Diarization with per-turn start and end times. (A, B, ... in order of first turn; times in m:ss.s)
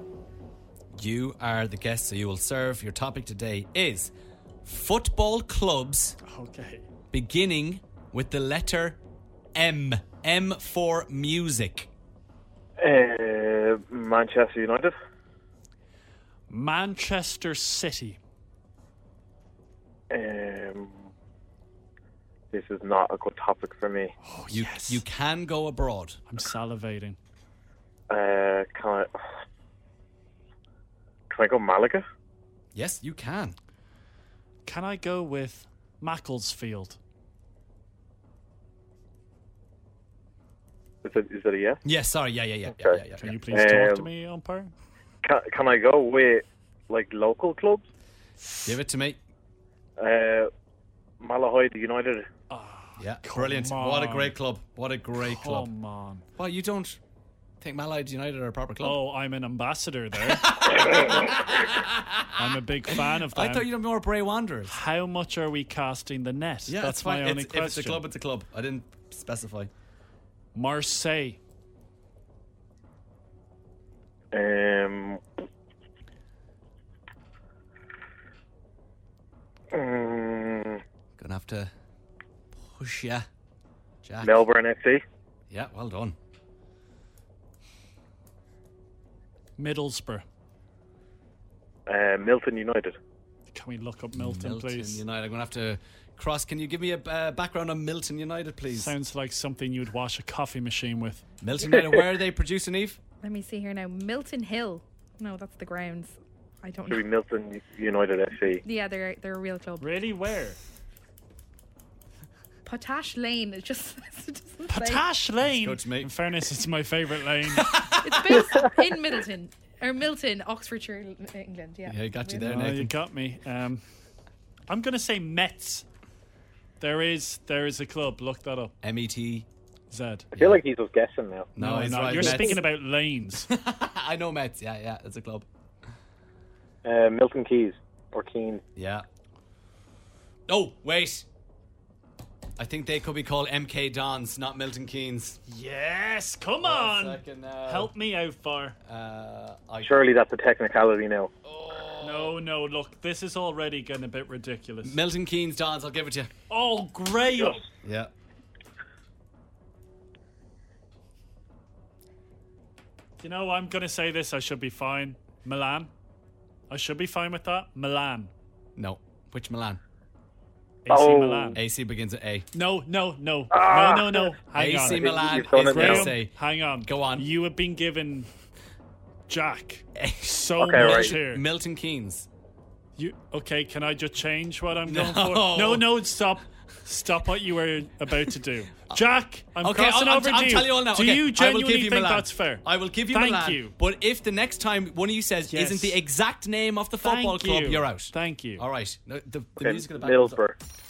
0:00.9-0:04.1 A
0:04.6-0:06.2 A
0:06.2-0:06.8 B
0:07.1-0:09.0 A
0:09.6-0:11.9 A
0:12.8-0:15.0 C
0:16.5-0:18.2 B
0:20.1-0:21.1 C
0:22.5-0:24.1 C
0:24.2-0:25.0 B
0:24.5-0:26.2 A
0:26.3-0:27.2 B
0:28.1-0:29.1 C
0:31.3-0:32.0 C
0:32.7-0:33.6 A
0:34.7-0:37.0 B
0:41.0-0:41.8 C
0:41.8-0:43.6 A
0:42.8-0:43.0 C
0:43.2-0:44.7 B
0:43.5-0:44.1 C
0:45.2-0:47.8 C
0:48.6-0:49.2 A
0:50.0-0:50.5 C
0:51.2-0:52.3 C
0:52.5-0:54.3 B
0:53.0-0:55.7 A
0:55.2-0:56.3 B
0:56.4-0:57.0 A
0:57.6-0:59.0 A
0:58.8-1:00.5 B
1:00.3-1:02.6 A
1:02.4-1:03.7 B
1:03.1-1:04.8 A
1:04.7-1:08.0 B
1:06.7-1:09.7 A
1:10.6-1:11.4 B
1:14.3-1:15.2 C
1:19.7-1:20.8 C
1:21.2-1:21.7 A
1:22.5-1:23.3 A
1:24.0-1:24.4 A
1:24.2-1:25.0 C
1:25.5-1:26.2 A
1:29.6-1:30.2 B
1:31.9-1:33.0 C
1:33.5-1:35.0 B
1:34.1-1:39.0 A
1:38.7-1:41.2 B
1:41.4-1:43.0 A
1:43.2-1:47.0 D
1:46.9-1:48.6 C
1:48.6-1:49.9 D
1:49.8-1:50.6 B
1:52.6-1:55.0 D
1:54.7-1:57.8 B
1:55.5-1:56.1 A
1:57.6-1:58.6 A
1:58.0-2:02.5 D
2:01.9-2:02.9 A
2:02.4-2:03.8 B
2:04.7-2:05.8 B
2:06.8-2:08.7 B
2:08.8-2:09.5 A
2:09.9-2:10.3 B
2:10.4-2:10.6 A
2:10.4-2:11.6 C
2:11.6-2:12.6 A
2:11.6-2:13.5 B
2:12.1-2:12.6 C
2:13.5-2:15.5 A
2:16.8-2:18.6 C
2:18.8-2:19.1 A
2:20.5-2:21.3 A
2:22.6-2:25.4 A
2:25.5-2:28.8 B
2:26.6-2:27.9 A
2:28.8-2:30.1 A
2:29.8-2:31.3 C
2:31.5-2:32.4 A
2:32.0-2:35.0 B
2:34.8-2:36.3 A
2:36.5-2:37.6 B
2:37.8-2:38.1 A
2:43.2-2:45.9 B
2:46.7-2:48.3 B
2:48.8-2:49.8 A
2:50.8-2:51.6 B
2:50.9-2:51.6 C
2:51.6-2:52.5 A
2:52.5-2:58.3 B
2:53.5-2:56.2 C
2:54.5-2:57.3 A
2:59.3-3:01.4 B
3:00.0-3:02.3 A
3:00.6-3:01.1 C
3:03.0-3:13.8 B
3:04.9-3:06.0 A
3:09.6-3:20.4 A
3:15.5-3:16.0 B
3:17.0-3:18.6 B
3:19.6-3:20.6 C